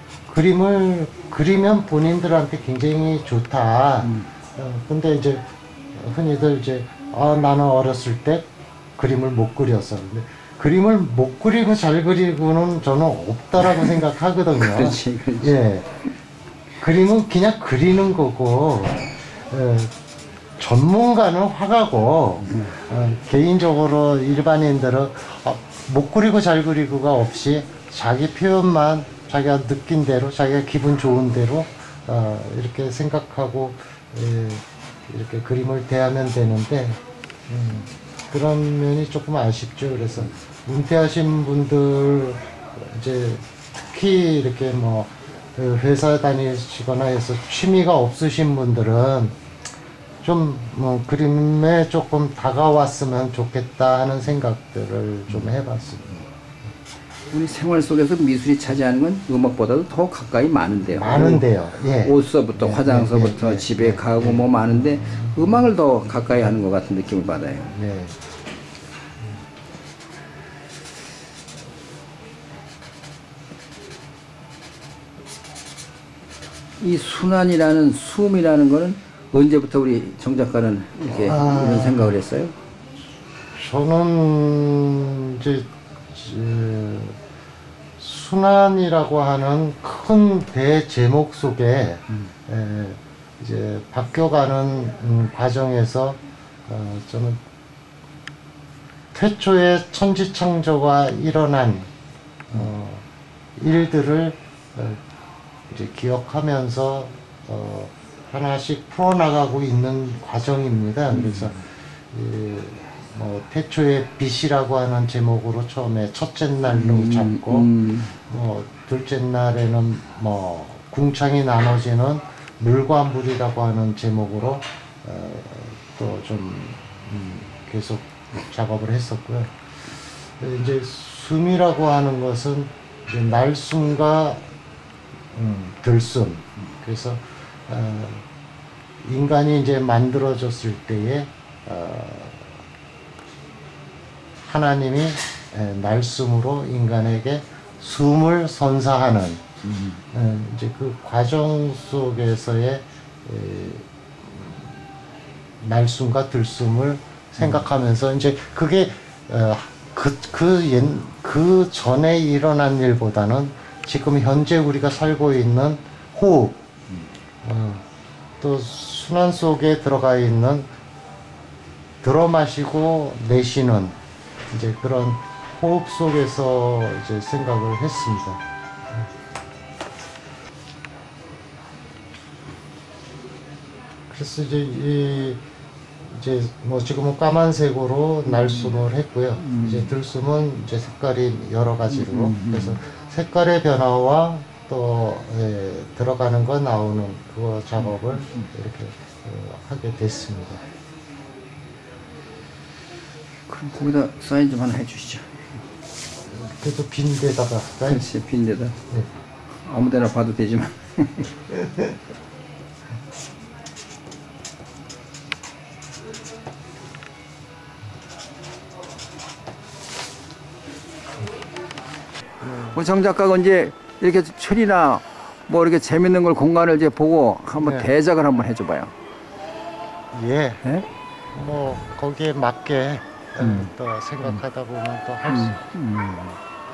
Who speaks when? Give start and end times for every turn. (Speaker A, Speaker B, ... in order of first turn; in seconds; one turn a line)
Speaker A: 0.3-5.4
Speaker A: 5.9-15.9
Speaker B: 13.6-13.9
Speaker B: 14.6-15.6
Speaker A: 16.8-19.9
Speaker A: 20.6-49.4
Speaker B: 22.4-22.7
Speaker A: 50.2-56.3
Speaker B: 57.3-61.5
Speaker A: 60.9-65.7
Speaker B: 62.0-67.7
Speaker A: 67.7-68.2
Speaker B: 76.8-82.5
Speaker A: 81.1-82.2
Speaker A: 83.5-87.2
Speaker A: 88.0-97.4
Speaker A: 99.1-101.9
Speaker A: 102.5-103.0
Speaker A: 103.6-105.0
Speaker A: 105.7-117.7
Speaker B: 111.1-111.6
Speaker B: 116.7-118.2
Speaker A: 118.3-129.5
Speaker A: 130.4-134.5
Speaker A: 135.3-138.2
Speaker A: 139.0-142.6
Speaker A: 144.4-149.4
Speaker B: 149.6-150.0
Speaker A: 150.1-154.7
Speaker A: 155.6-166.6
Speaker B: 157.4-157.7
Speaker A: 167.4-167.8
Speaker A: 168.4-170.7
Speaker A: 172.0-173.9
Speaker A: 174.5-178.4
Speaker A: 184.1-185.4
Speaker A: 186.1-200.6
Speaker B: 188.2-188.8
Speaker B: 189.4-189.9
Speaker B: 191.9-192.8
Speaker B: 197.8-198.5
Speaker B: 203.5-205.4
Speaker A: 206.3-208.1
Speaker B: 207.8-208.8
Speaker B: 209.6-211.3
Speaker A: 211.5-211.9
Speaker A: 222.4-222.8
Speaker B: 222.7-228.9
Speaker A: 227.6-227.9
Speaker A: 230.1-230.6
Speaker A: 231.3-235.6
Speaker B: 233.4-233.7
Speaker B: 235.3-236.4